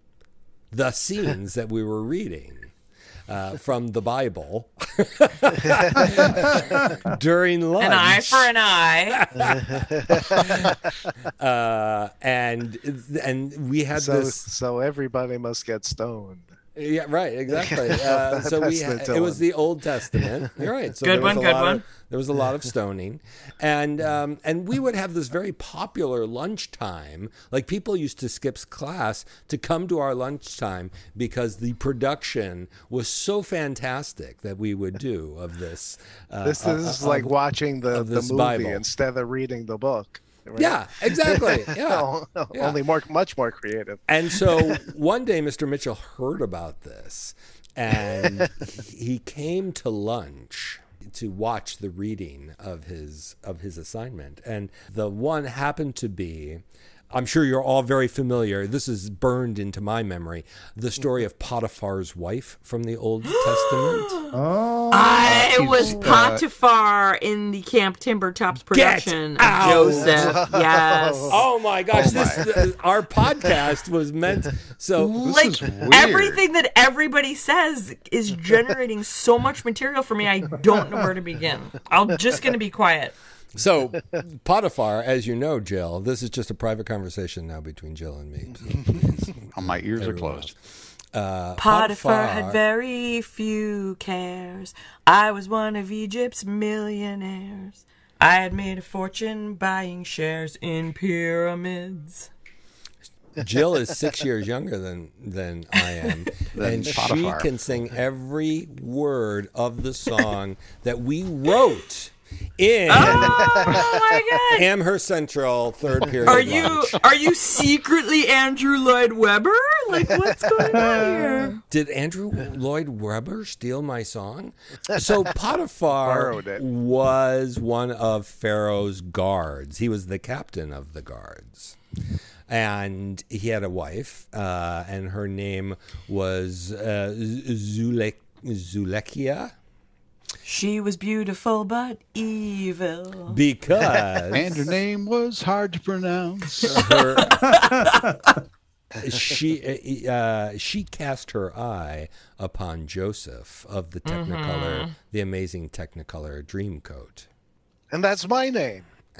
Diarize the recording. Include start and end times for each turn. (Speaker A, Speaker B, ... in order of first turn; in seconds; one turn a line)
Speaker A: 0.7-2.7
Speaker A: 3.3-8.5
Speaker B: 6.0-7.0
Speaker C: 7.8-9.3
Speaker A: 9.1-14.4
Speaker D: 9.4-10.7
Speaker D: 13.9-16.5
Speaker A: 16.8-37.4
Speaker D: 17.5-19.4
Speaker C: 21.0-21.8
Speaker D: 36.4-44.8
Speaker A: 37.9-38.8
Speaker A: 40.5-42.8
Speaker A: 44.1-64.2
Speaker C: 63.3-64.3
Speaker B: 64.3-65.4
Speaker C: 64.9-71.4
Speaker E: 65.2-66.4
Speaker A: 68.7-70.4
Speaker D: 70.0-71.4
Speaker A: 71.3-75.3
Speaker E: 71.9-72.4
Speaker E: 75.0-76.4
Speaker C: 75.2-83.2
Speaker A: 83.5-90.5
Speaker E: 89.5-90.5
Speaker A: 91.1-92.6
Speaker C: 91.6-102.3
Speaker A: 103.4-113.9
Speaker E: 106.5-107.5
Speaker C: 112.9-114.7
Speaker A: 114.5-117.0
Speaker C: 116.2-121.6
Speaker B: 120.7-121.5
Speaker A: 121.7-131.8
Speaker D: 126.0-126.6
Speaker A: 132.5-139.5
Speaker C: 140.4-143.4
Speaker A: 143.3-144.5
Speaker E: 144.3-146.9
Speaker A: 146.6-147.5
Speaker C: 146.8-148.0
Speaker B: 147.5-148.3
Speaker A: 149.0-157.3
Speaker C: 154.1-154.9
Speaker D: 157.9-158.8